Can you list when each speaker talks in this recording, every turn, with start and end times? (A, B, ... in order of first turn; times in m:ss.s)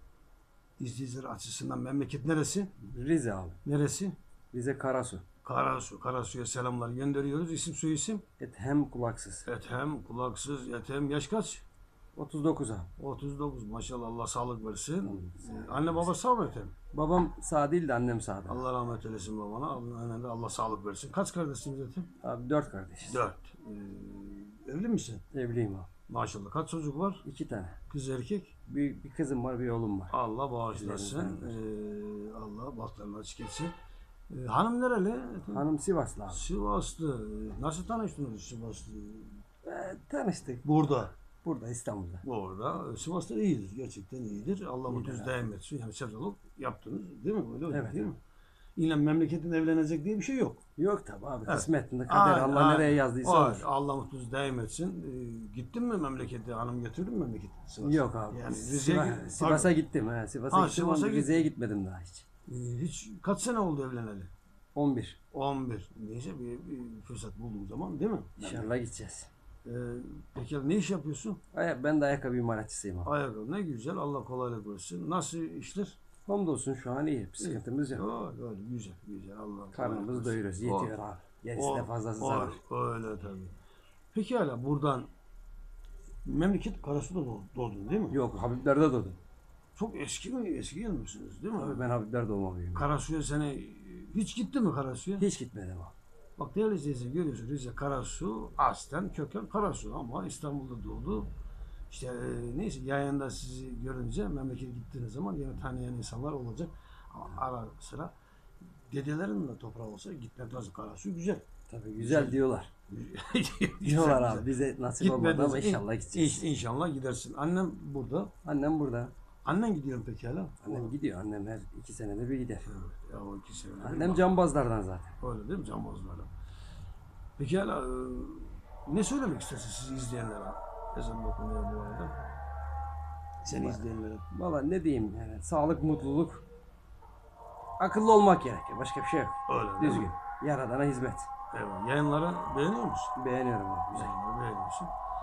0:00.8-0:02.7 A
0:02.8-0:03.6 B
0:03.6-0:04.2 A
0:04.5-0:05.2 B
0:05.4-0:08.2 A
0:08.4-0:09.5 B
0:09.4-0:11.6 A
0:12.1-0:12.9 B
0:13.0-0:16.8 A
0:15.0-0:16.0 B
0:16.9-0:18.6 B
0:18.5-0:22.1 A
0:22.2-0:23.2 B
0:23.0-0:25.2 A
0:25.3-0:25.9 B
0:26.1-0:27.2 A
0:27.2-0:27.8 B
0:27.9-0:28.5 A
0:28.7-0:30.1 B
0:30.1-0:33.7 A
0:30.7-0:31.6 B
0:34.3-0:35.6 A
0:35.5-0:36.4 B
0:36.3-0:39.4 A
0:39.6-0:40.7 B
0:40.6-0:41.1 A
0:41.4-0:42.2 B
0:42.2-0:48.2 A
0:44.9-0:45.3 B
0:47.7-0:48.1 B
0:48.8-0:50.6 A
0:50.8-0:53.7 B
0:51.4-0:59.7 A
0:57.8-1:02.3 B
1:00.5-1:01.5 A
1:02.5-1:04.3 A
1:04.8-1:05.2 B
1:05.3-1:08.7 A
1:08.4-1:09.3 B
1:09.6-1:11.4 A
1:11.5-1:13.1 B
1:13.0-1:16.0 A
1:16.3-1:18.0 B
1:17.4-1:21.0 A
1:19.7-1:22.6 B
1:21.6-1:23.5 A
1:24.1-1:25.1 A
1:26.2-1:28.2 A
1:28.1-1:29.2 B
1:29.8-1:31.8 A
1:31.6-1:32.9 B
1:32.8-1:35.3 A
1:35.2-1:35.9 B
1:36.4-1:41.3 A
1:41.9-1:48.1 A
1:48.9-1:58.3 A
1:51.7-1:52.7 B
1:53.8-1:56.4 B
1:58.4-1:59.1 B
1:59.4-2:00.9 A
2:00.6-2:02.7 B
2:02.6-2:04.3 A
2:03.8-2:05.1 B
2:05.2-2:06.3 A
2:07.4-2:12.2 A
2:13.4-2:14.2 A
2:13.5-2:16.4 B
2:17.8-2:21.3 B
2:19.5-2:20.1 A
2:21.5-2:23.2 A
2:23.2-2:24.1 B
2:23.9-2:24.9 A